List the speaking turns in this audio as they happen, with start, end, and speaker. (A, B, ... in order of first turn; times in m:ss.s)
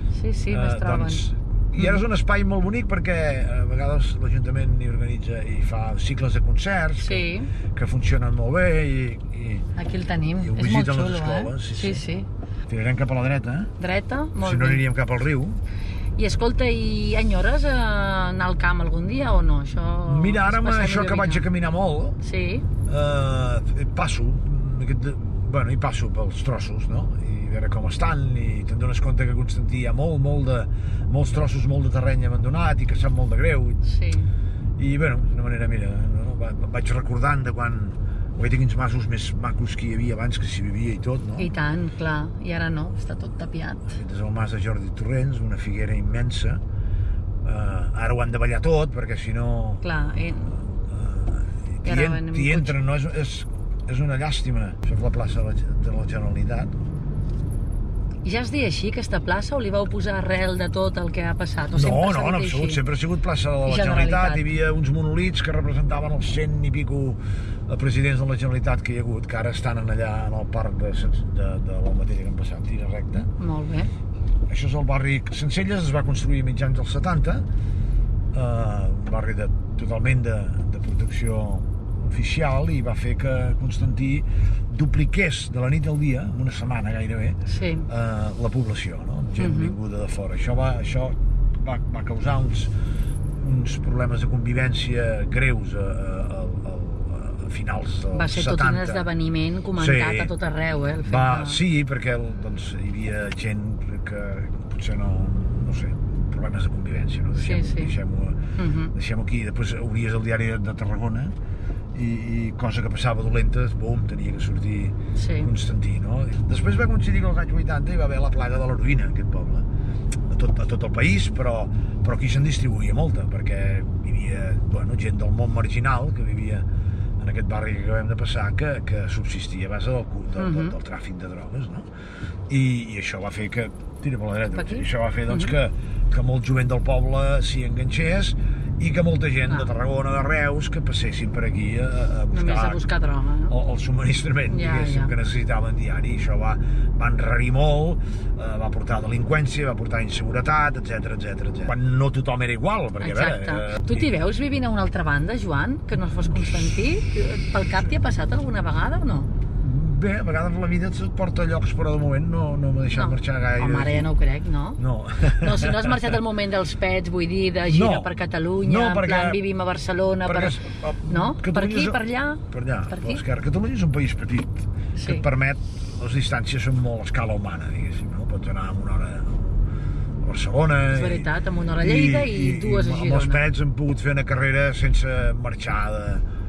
0:00.1-0:01.2 A
0:00.5-0:09.6 B
0:07.0-0:07.5 A
0:09.8-0:12.3 A
0:10.4-0:12.0 B
0:12.7-0:13.7 B
0:13.8-0:14.8 A
0:14.4-0:15.6 B
0:16.2-0:21.4 A
0:20.1-0:22.2 B
0:22.2-0:22.6 A
0:22.9-0:33.8 B
0:33.8-0:34.3 A
0:34.8-0:41.5 B
0:41.4-0:43.9 A
0:43.9-0:46.6 B
0:47.4-0:56.7 B
0:49.8-0:50.5 A
0:51.8-0:52.7 A
0:58.2-1:02.8 A
1:01.7-1:13.3 B
1:03.6-1:04.4 A
1:13.4-1:13.9 A
1:14.5-1:17.4 B
1:18.3-1:32.7 B
1:27.5-1:27.9 A
1:29.4-1:29.7 A
1:33.4-1:39.0 B
1:38.1-1:41.6 A
1:39.8-1:40.3 B
1:41.0-1:48.4 B
1:47.4-1:47.9 A
1:48.6-1:48.9 A
1:48.9-1:51.3 B
1:51.9-1:59.6 B
1:55.2-1:55.5 A
2:00.3-2:06.6 B
2:07.2-2:11.8 B
2:10.4-2:10.7 A
2:12.5-2:22.8 B
2:14.5-2:15.5 A
2:22.3-2:23.5 A
2:23.5-2:34.1 B
2:24.5-2:25.1 A
2:33.0-2:39.3 A
2:36.2-2:36.6 B
2:39.6-2:44.1 B
2:42.9-2:53.2 A
2:44.8-2:46.1 B
2:47.7-2:49.4 B
2:50.2-2:52.0 B
2:52.5-2:59.6 B
2:55.0-2:55.2 A
3:00.2-3:01.3 B
3:00.9-3:03.4 A
3:01.8-3:06.2 B